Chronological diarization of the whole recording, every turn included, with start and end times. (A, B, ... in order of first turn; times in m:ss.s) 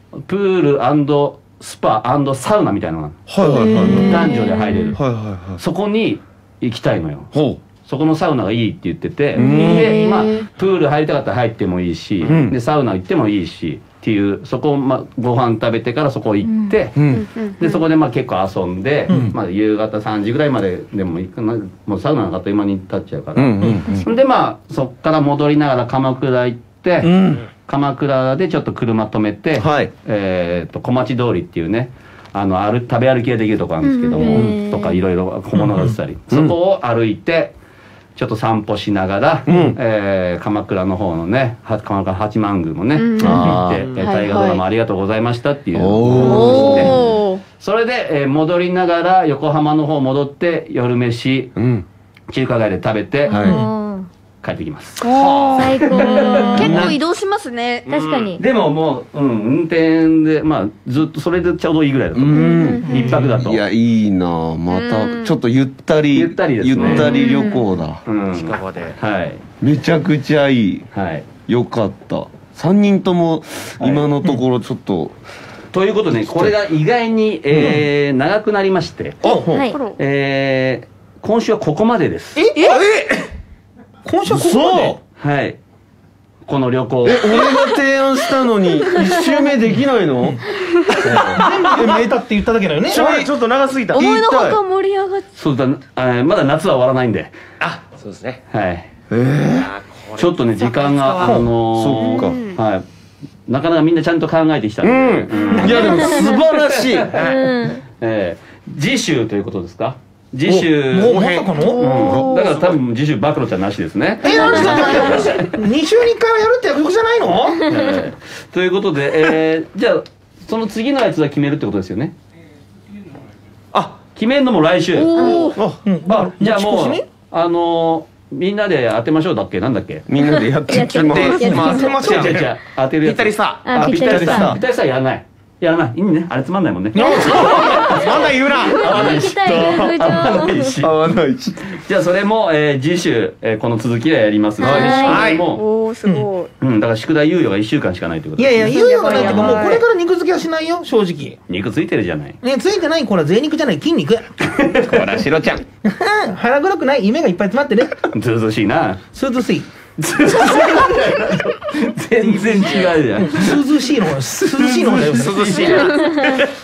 0:00.2-0:03.3 A
0:03.3-0:04.3 B
0:03.5-0:04.3 C
0:03.5-0:04.7 D
0:03.9-0:05.0 A
0:05.0-0:05.6 B
0:05.6-0:07.3 A
0:07.3-0:07.6 B
0:07.8-0:17.0 A
0:09.4-0:10.5 C
0:09.4-0:09.9 B
0:12.2-0:12.6 B
0:17.0-0:17.3 B
0:17.1-0:17.8 C
0:17.6-0:37.6 A
0:19.1-0:19.4 E
0:23.4-0:24.0 B
0:27.0-0:27.5 B
0:29.6-0:29.9 B
0:33.8-0:35.0 D
0:34.2-0:34.6 B
0:35.5-0:36.0 E
0:36.3-0:36.6 B
0:38.2-0:47.0 A
0:39.5-0:39.8 B
0:43.0-0:44.6 C
0:43.2-0:43.9 B
0:45.7-0:46.9 B
0:46.2-0:46.7 D
0:46.2-0:47.4 C
0:47.6-0:51.6 A
0:51.6-0:51.9 B
0:52.3-0:53.4 A
0:53.3-0:54.1 D
0:53.3-0:53.6 B
0:54.4-0:55.0 A
0:55.0-0:57.9 C
0:55.1-0:55.6 F
0:55.5-0:56.9 D
0:55.8-0:57.0 A
0:57.9-0:58.3 F
0:57.9-0:58.4 D
0:58.4-1:03.6 A
1:02.2-1:08.0 B
1:02.4-1:03.1 C
1:02.8-1:03.3 E
1:04.7-1:05.4 C
1:06.1-1:07.1 A
1:07.0-1:07.6 D
1:08.1-1:09.4 A
1:08.3-1:09.0 F
1:09.6-1:10.9 B
1:10.9-1:11.3 A
1:11.5-1:15.2 B
1:15.7-1:19.2 A
1:16.3-1:16.6 B
1:17.6-1:17.8 E
1:19.2-1:19.7 B
1:19.5-1:19.8 D
1:20.0-1:22.4 A
1:22.4-1:22.7 E
1:22.7-1:23.1 F
1:24.0-1:25.0 E
1:24.3-1:24.9 B
1:25.2-1:25.6 A
1:26.5-1:27.4 A
1:27.0-1:32.1 B
1:31.0-1:31.4 A
1:31.4-1:33.0 E
1:32.9-1:34.1 F
1:32.9-1:33.3 B
1:33.9-1:35.3 C
1:33.9-1:34.6 B
1:35.4-1:37.4 A
1:37.6-1:38.4 F
1:38.5-1:38.9 A
1:39.1-1:39.7 B
1:39.5-1:41.4 F
1:40.2-1:42.8 A
1:41.2-1:42.4 B
1:42.2-1:42.6 C
1:43.5-1:47.1 A
1:44.8-1:47.2 B
1:45.8-1:46.2 D
1:47.1-1:47.7 F
1:47.2-1:47.8 D
1:48.0-1:51.2 A
1:50.5-1:51.5 F
1:50.8-1:51.9 E
1:51.5-1:52.7 C
1:51.8-1:55.2 A
1:54.2-1:57.7 E
1:54.4-1:55.0 D
1:57.6-2:02.2 A
2:03.7-2:04.0 F
2:04.2-2:05.4 A
2:05.0-2:05.6 C
2:05.2-2:05.5 D
2:05.8-2:07.0 E
2:06.1-2:10.1 A
2:10.1-2:11.9 B
2:10.4-2:12.0 D
2:11.0-2:12.3 F
2:11.4-2:12.5 E
2:12.0-2:20.9 A
2:13.0-2:13.7 F
2:13.6-2:14.6 D
2:14.0-2:14.6 B
2:16.9-2:17.9 E
2:17.1-2:18.0 D
2:17.3-2:19.2 F
2:18.6-2:20.7 D
2:20.8-2:21.6 B
2:21.7-2:25.6 A
2:24.6-2:25.3 D
2:24.6-2:26.5 C
2:24.6-2:25.0 B
2:25.0-2:25.4 F
2:26.6-2:29.5 A
2:28.4-2:31.4 E
2:28.7-2:29.9 C
2:31.5-2:32.4 A
2:32.4-2:34.3 E
2:34.5-2:35.2 A
2:34.9-2:35.6 F
2:35.1-2:35.6 B
2:35.8-2:38.1 E
2:38.1-2:39.0 A
2:39.1-2:39.7 E
2:40.0-2:43.6 A
2:40.4-2:40.9 E
2:42.2-2:45.6 E
2:45.1-2:46.1 A
2:45.1-2:46.5 F